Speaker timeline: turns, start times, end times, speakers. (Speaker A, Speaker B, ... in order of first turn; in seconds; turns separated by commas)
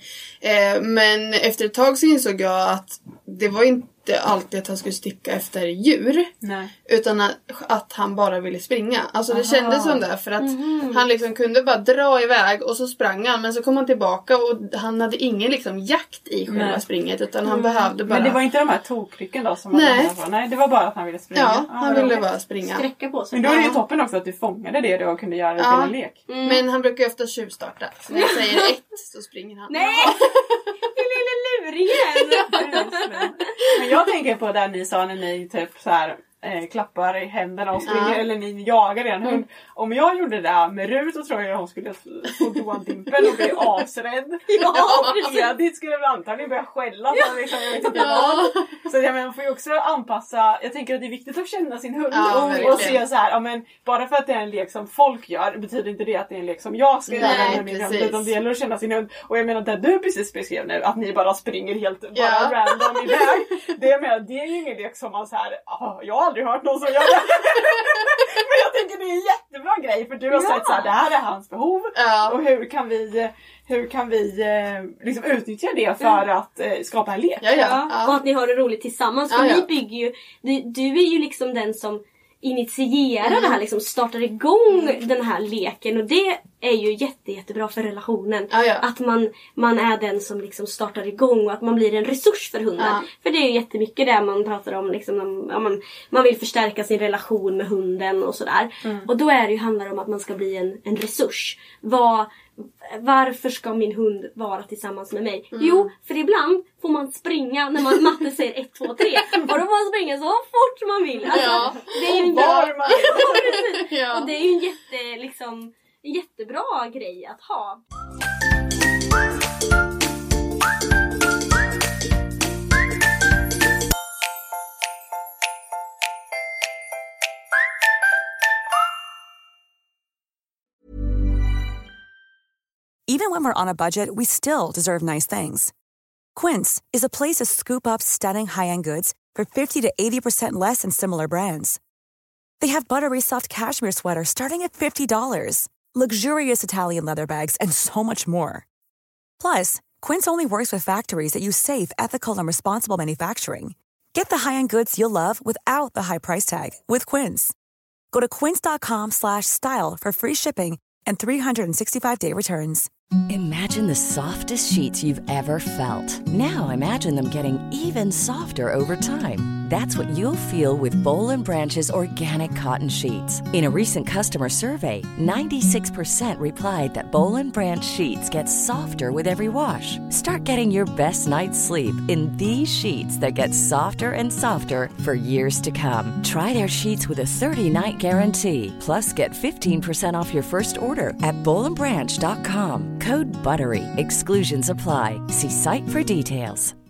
Speaker A: 0.4-6.3, Speaker B: 6.4-6.7, Speaker A: 6.9-18.4, Speaker B: 9.3-10.0, Speaker C: 10.4-11.0, Speaker B: 16.5-16.8, Speaker C: 17.4-17.9, Speaker B: 18.1-22.2, Speaker A: 19.7-20.1, Speaker A: 21.3-22.9, Speaker C: 22.6-23.8, Speaker B: 23.3-26.2, Speaker A: 23.5-23.7, Speaker A: 25.6-30.7, Speaker C: 26.3-26.6, Speaker C: 28.1-28.7, Speaker C: 29.7-30.3, Speaker C: 30.8-33.2, Speaker A: 32.2-32.4, Speaker B: 32.5-77.8, Speaker A: 37.9-38.2, Speaker C: 44.5-45.5, Speaker C: 47.1-48.2, Speaker A: 48.0-48.6, Speaker A: 52.1-53.0, Speaker C: 52.3-53.0, Speaker A: 57.1-58.3, Speaker C: 57.2-57.6, Speaker A: 62.1-63.2, Speaker C: 70.3-70.9, Speaker A: 72.0-72.4, Speaker A: 77.4-78.2, Speaker C: 77.5-117.8, Speaker A: 79.3-79.7, Speaker A: 83.3-83.5, Speaker A: 88.5-88.8, Speaker A: 92.8-93.0, Speaker A: 105.5-105.9, Speaker A: 111.3-112.2, Speaker B: 112.2-113.5, Speaker A: 112.8-114.3, Speaker D: 133.1-135.7, Speaker D: 136.3-141.8, Speaker D: 142.6-148.7, Speaker D: 149.4-157.5, Speaker D: 158.1-162.9, Speaker E: 163.3-196.7